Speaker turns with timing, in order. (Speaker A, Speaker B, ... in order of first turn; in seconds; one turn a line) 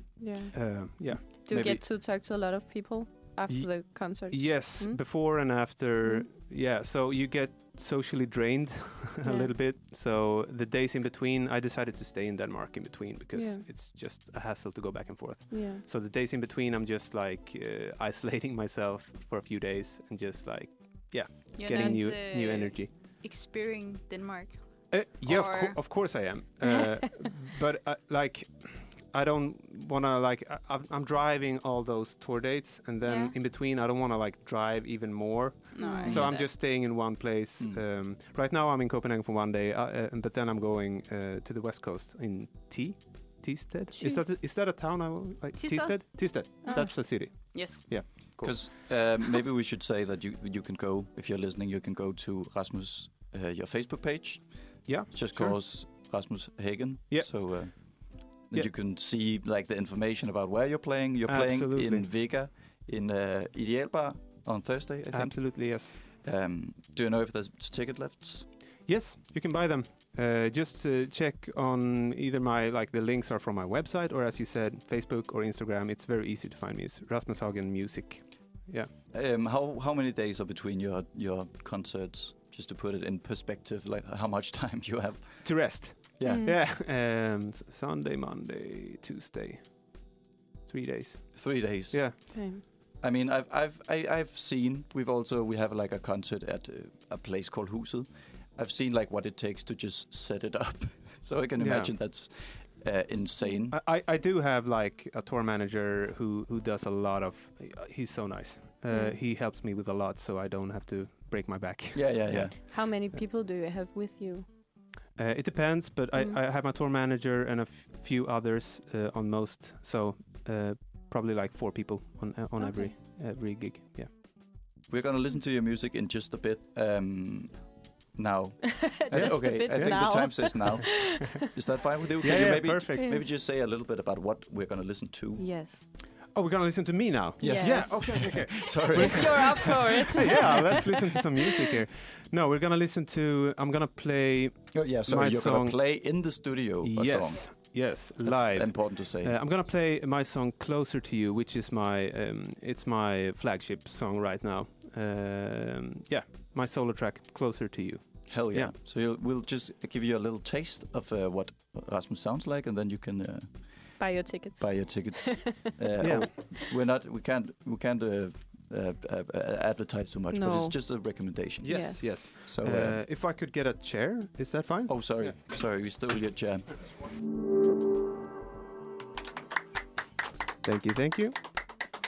Speaker A: 0.2-6.3
Speaker B: 0.5-1.8
Speaker C: 1.5-1.8
Speaker B: 3.5-22.9
Speaker A: 9.2-9.5
Speaker A: 13.3-13.7
Speaker A: 15.5-15.8
Speaker D: 21.6-26.2
Speaker A: 21.7-22.0
Speaker B: 24.9-48.8
Speaker D: 33.0-33.4
Speaker D: 35.7-36.5
Speaker A: 35.8-36.2
Speaker C: 36.0-36.5
Speaker A: 44.0-44.2
Speaker D: 45.6-48.3
Speaker A: 46.6-47.2
Speaker C: 47.9-68.5
Speaker B: 54.9-55.6
Speaker B: 57.1-58.7
Speaker B: 61.3-62.1
Speaker B: 65.1-66.0
Speaker B: 68.8-78.9
Speaker C: 79.1-86.5
Speaker B: 85.4-92.2
Speaker A: 86.3-86.6
Speaker C: 91.3-103.8
Speaker A: 92.3-92.6
Speaker B: 101.6-102.0
Speaker B: 103.7-113.2
Speaker A: 108.9-109.2
Speaker C: 111.9-112.7
Speaker A: 112.5-114.5
Speaker B: 115.2-124.1
Speaker A: 122.6-122.9
Speaker C: 124.8-135.6
Speaker A: 128.8-131.4
Speaker B: 129.1-130.5
Speaker B: 132.2-133.1
Speaker A: 132.9-133.2
Speaker A: 135.4-135.9
Speaker B: 136.3-158.7
Speaker C: 137.4-140.5
Speaker A: 137.4-140.8
Speaker C: 144.7-149.4
Speaker C: 158.3-173.0
Speaker A: 164.0-166.4
Speaker B: 166.0-166.3
Speaker A: 170.3-172.1
Speaker B: 171.6-175.4
Speaker C: 174.9-176.9
Speaker B: 180.6-181.4